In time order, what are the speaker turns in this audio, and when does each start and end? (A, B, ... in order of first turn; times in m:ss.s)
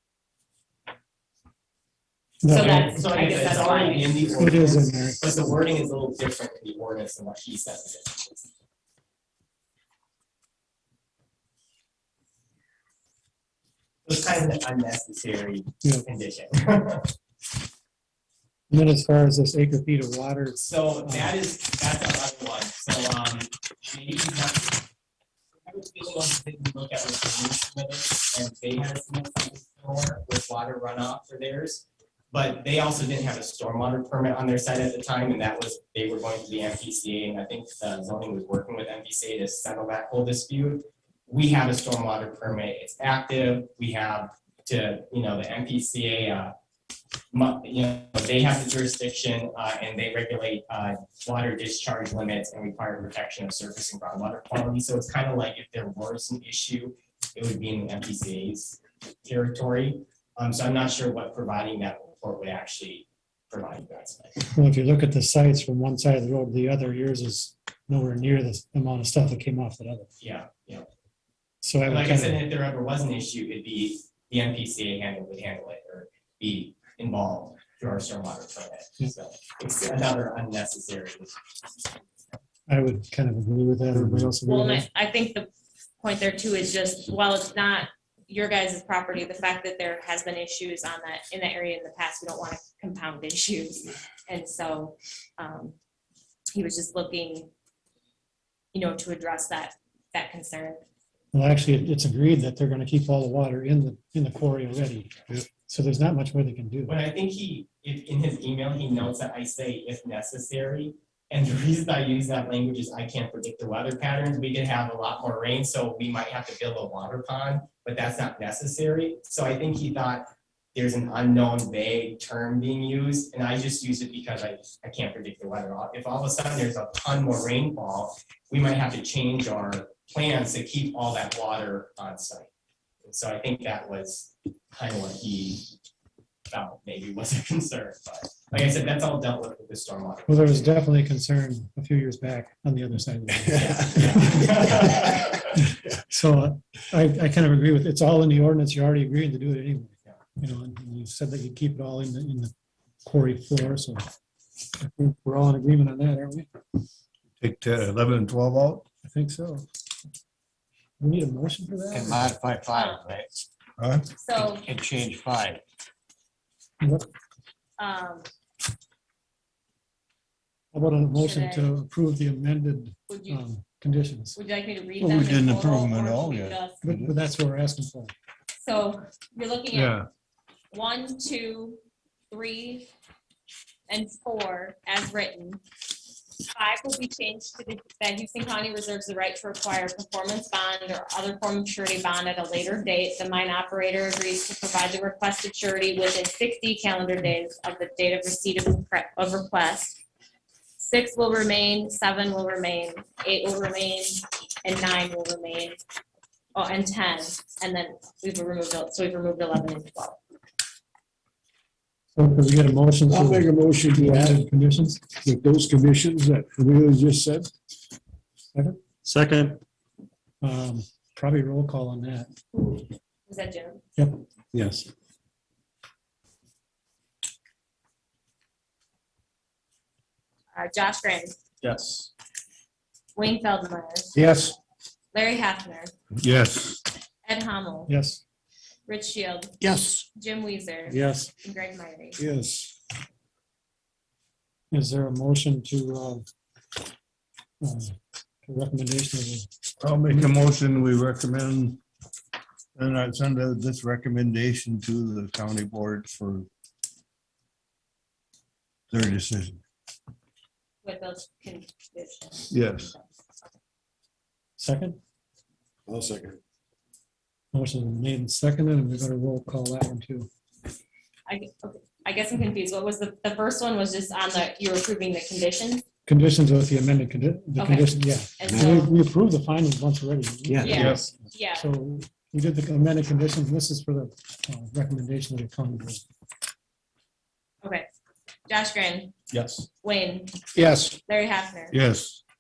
0:02.4-0:03.0 A
0:02.5-0:04.3 B
0:02.7-0:08.5 C
0:04.3-0:05.2 A
0:14.0-0:17.1 C
0:18.7-0:21.3 A
0:20.6-0:24.8 C
0:25.6-0:46.5 C
0:47.3-1:04.4 C
1:04.5-1:10.1 A
1:10.2-1:10.9 C
1:11.6-1:12.5 A
1:11.8-1:21.4 C
1:22.7-1:24.8 A
1:24.4-1:25.5 B
1:26.0-1:35.8 B
1:36.5-1:37.5 B
1:38.7-1:40.8 B
1:41.3-1:47.0 A
1:46.9-2:12.5 C
2:13.0-2:15.7 C
2:16.5-2:20.7 C
2:20.3-2:24.5 A
2:23.5-2:25.5 C
2:25.5-2:32.5 A
2:33.0-2:34.0 A
2:34.8-2:36.5 A
2:37.4-2:38.8 D
2:39.0-2:39.7 A
2:41.0-2:42.3 A
2:41.9-2:43.4 E
2:42.7-2:43.1 B
2:43.8-2:44.0 D
2:44.2-2:44.7 B
2:44.4-2:45.6 E
2:46.8-2:47.1 A
2:47.8-2:48.3 B
2:50.7-2:54.4 A
2:51.2-2:51.7 B
2:53.1-2:53.4 B
2:54.3-2:56.8 B
2:55.0-2:57.2 D
2:56.8-2:58.1 A
2:58.6-3:00.0 B
2:59.7-3:00.1 D
3:00.7-3:02.9 B
3:03.9-3:05.6 B
3:06.5-3:20.0 B
3:20.8-3:25.8 B
3:26.5-3:30.2 B
3:32.1-3:35.2 A
3:33.1-3:34.4 F
3:35.2-3:37.5 F
3:38.5-3:38.8 A
3:39.2-3:39.5 F
3:40.4-3:42.3 A
3:43.2-3:43.8 B
3:44.0-3:44.9 A
3:50.5-3:51.4 B
3:53.2-3:54.1 B
3:54.1-3:54.5 D
3:55.1-3:55.9 B
3:56.2-3:56.8 D
3:57.2-3:57.9 B
3:57.9-3:58.2 A
3:58.9-3:59.6 B
4:00.1-4:02.2 B
4:00.9-4:01.3 A
4:02.2-4:02.7 F
4:04.7-4:06.2 A
4:07.6-4:09.5 A
4:09.8-4:11.8 D
4:12.8-4:16.5 D
4:18.9-4:19.6 D
4:20.8-4:23.0 B
4:22.5-4:22.9 D
4:24.6-4:25.0 A
4:25.9-4:26.4 F
4:27.5-4:30.3 A
4:31.3-4:35.8 B
4:36.1-4:46.0 A
4:37.6-4:38.9 B
4:38.5-4:38.8 E
4:40.5-4:40.9 E
4:40.6-4:41.7 B
4:40.7-4:41.0 D
4:48.5-4:49.1 B
4:49.8-4:50.4 B
4:51.0-4:51.8 B
4:51.7-4:52.2 D